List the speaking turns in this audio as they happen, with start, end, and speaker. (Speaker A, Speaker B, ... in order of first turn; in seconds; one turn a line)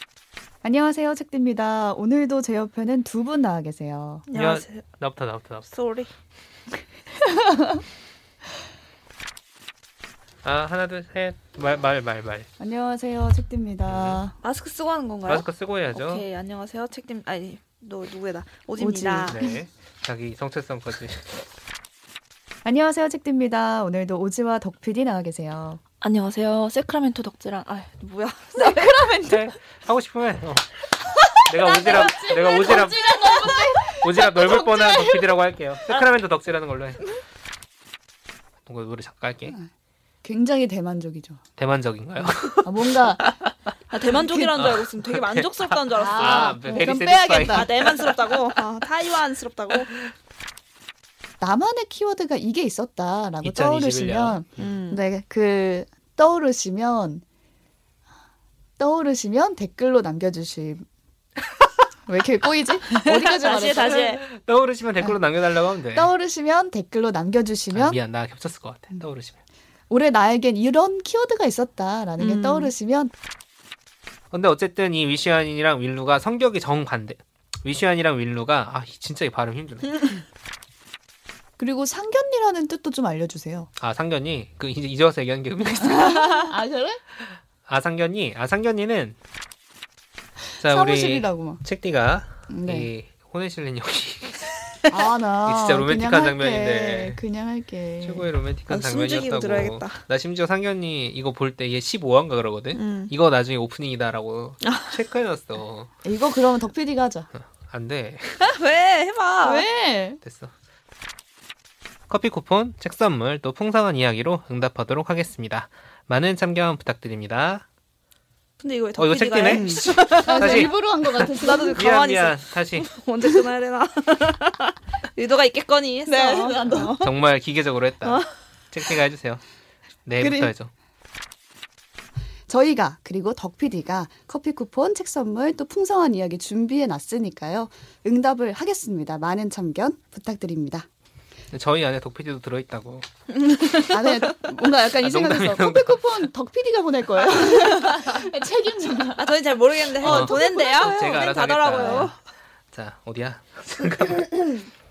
Speaker A: 0.6-4.2
Speaker B: 4.3-4.8
Speaker C: 4.3-5.7
Speaker B: 5.7-6.1
Speaker A: 7.2-7.8
Speaker C: 10.4-12.5
Speaker A: 12.6-14.3
Speaker C: 13.9-14.2
Speaker B: 14.4-19.4
Speaker C: 15.3-16.2
Speaker A: 18.8-19.5
Speaker C: 19.3-21.4
Speaker A: 22.6-25.8
Speaker B: 26.0-29.1
Speaker A: 28.5-29.4
Speaker C: 29.2-30.7
Speaker C: 31.4-33.2
Speaker B: 31.6-34.0
Speaker A: 31.7-34.9
Speaker C: 34.0-37.0
Speaker B: 34.5-35.0
Speaker C: 38.7-39.6
Speaker A: 40.2-41.4
Speaker C: 41.6-43.5
Speaker A: 42.2-43.3
Speaker B: 43.9-49.9
Speaker C: 44.5-48.2
Speaker A: 45.9-47.7
Speaker A: 51.4-57.2
Speaker C: 53.4-54.6
Speaker B: 54.6-55.0
Speaker A: 58.8-60.8
Speaker A: 62.1-64.1
Speaker B: 62.9-64.2
Speaker C: 64.2-66.1
Speaker A: 65.9-68.0
Speaker C: 67.7-69.4
Speaker A: 69.9-73.1
Speaker B: 72.2-72.7
Speaker C: 74.3-80.1
Speaker A: 81.6-83.7
Speaker C: 83.8-86.3
Speaker B: 86.1-86.5
Speaker A: 86.3-87.0
Speaker C: 87.3-89.2
Speaker A: 90.6-91.6
Speaker C: 90.6-94.5
Speaker A: 92.5-92.9
Speaker A: 94.9-98.3
Speaker C: 95.5-97.2
Speaker C: 98.0-105.9
Speaker B: 98.7-100.0
Speaker B: 102.7-103.1
Speaker B: 104.6-104.9
Speaker A: 106.0-107.3
Speaker C: 107.4-108.4
Speaker B: 108.4-109.6
Speaker A: 109.4-110.2
Speaker C: 110.2-110.5
Speaker C: 112.1-117.6
Speaker B: 118.6-120.7
Speaker C: 119.0-122.9
Speaker A: 119.5-121.9
Speaker B: 121.3-127.1
Speaker A: 126.0-127.0
Speaker C: 127.0-129.4
Speaker C: 130.0-130.7
Speaker A: 130.2-130.5
Speaker A: 132.5-140.9
Speaker C: 141.5-143.1
Speaker B: 143.3-144.2
Speaker A: 143.8-149.4
Speaker C: 145.0-146.1
Speaker B: 147.5-148.3
Speaker B: 149.2-152.2
Speaker A: 149.9-151.0
Speaker C: 150.0-152.1
Speaker A: 151.7-152.1
Speaker C: 152.7-154.4